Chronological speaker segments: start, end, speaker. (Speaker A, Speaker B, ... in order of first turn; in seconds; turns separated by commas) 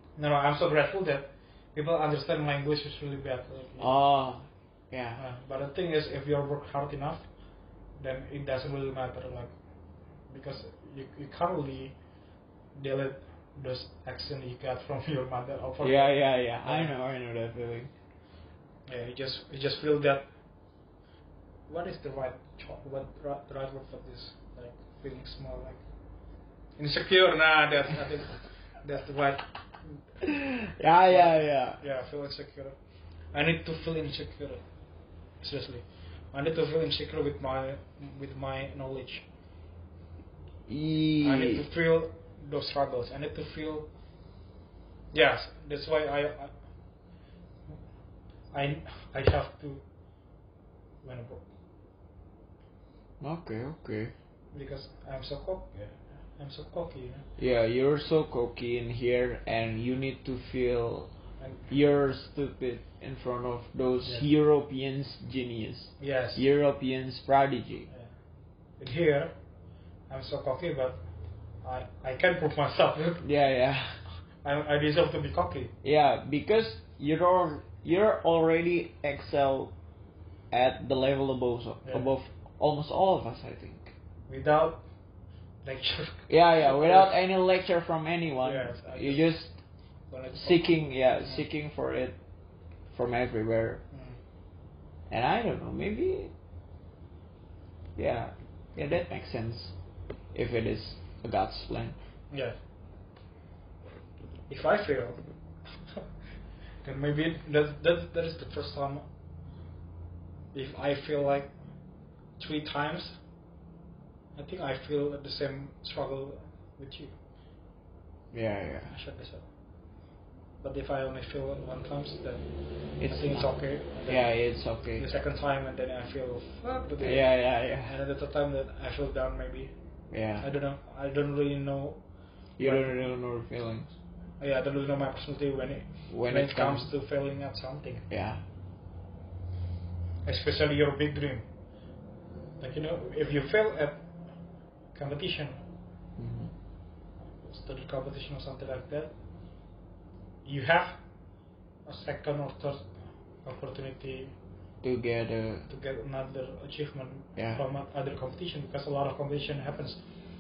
Speaker A: 0.2-3.9, Speaker B: 3.8-5.2, Speaker A: 5.2-7.3, Speaker A: 8.0-9.5, Speaker A: 10.2-12.0, Speaker A: 12.8-16.9, Speaker B: 15.8-17.9, Speaker A: 18.9-20.3, Speaker A: 21.7-25.8, Speaker A: 26.8-30.0, Speaker B: 30.2-31.8, Speaker A: 31.1-32.8, Speaker A: 33.3-34.6, Speaker A: 35.4-39.2, Speaker B: 40.7-41.6, Speaker A: 41.2-43.9, Speaker A: 45.1-46.5, Speaker A: 48.5-49.8, Speaker A: 51.0-51.5, Speaker B: 53.2-54.1, Speaker A: 54.5-57.3, Speaker B: 57.4-61.1, Speaker A: 61.4-61.7, Speaker B: 61.7-67.9, Speaker A: 66.0-66.4, Speaker A: 68.8-69.3, Speaker A: 70.1-71.0, Speaker A: 71.6-73.2, Speaker B: 73.2-74.0, Speaker A: 74.4-75.7, Speaker B: 75.8-79.7, Speaker B: 80.5-83.9, Speaker A: 84.3-84.8, Speaker A: 85.6-87.1, Speaker B: 86.3-89.6, Speaker A: 88.4-89.3, Speaker A: 90.1-91.4, Speaker B: 90.3-92.2, Speaker B: 92.9-93.8, Speaker A: 93.9-94.2, Speaker B: 95.1-96.3, Speaker B: 98.0-99.7, Speaker B: 100.3-102.0, Speaker A: 104.5-105.2, Speaker A: 106.8-109.0, Speaker A: 110.5-111.5, Speaker A: 112.4-113.2, Speaker A: 114.3-117.2, Speaker B: 118.3-119.0, Speaker A: 118.9-119.5, Speaker A: 120.6-129.7, Speaker B: 123.0-125.1, Speaker B: 127.0-127.9, Speaker B: 130.1-130.5, Speaker A: 130.4-132.1, Speaker B: 132.6-133.9, Speaker A: 132.6-132.9, Speaker A: 134.4-138.1, Speaker B: 136.1-136.9, Speaker B: 138.1-138.4, Speaker A: 140.2-141.5, Speaker A: 142.6-144.0, Speaker A: 144.9-145.6, Speaker B: 146.2-146.5, Speaker A: 147.4-149.1, Speaker A: 150.4-151.0, Speaker A: 151.9-152.9, Speaker A: 153.4-154.3, Speaker B: 154.8-155.7, Speaker A: 155.7-160.0, Speaker B: 157.4-157.6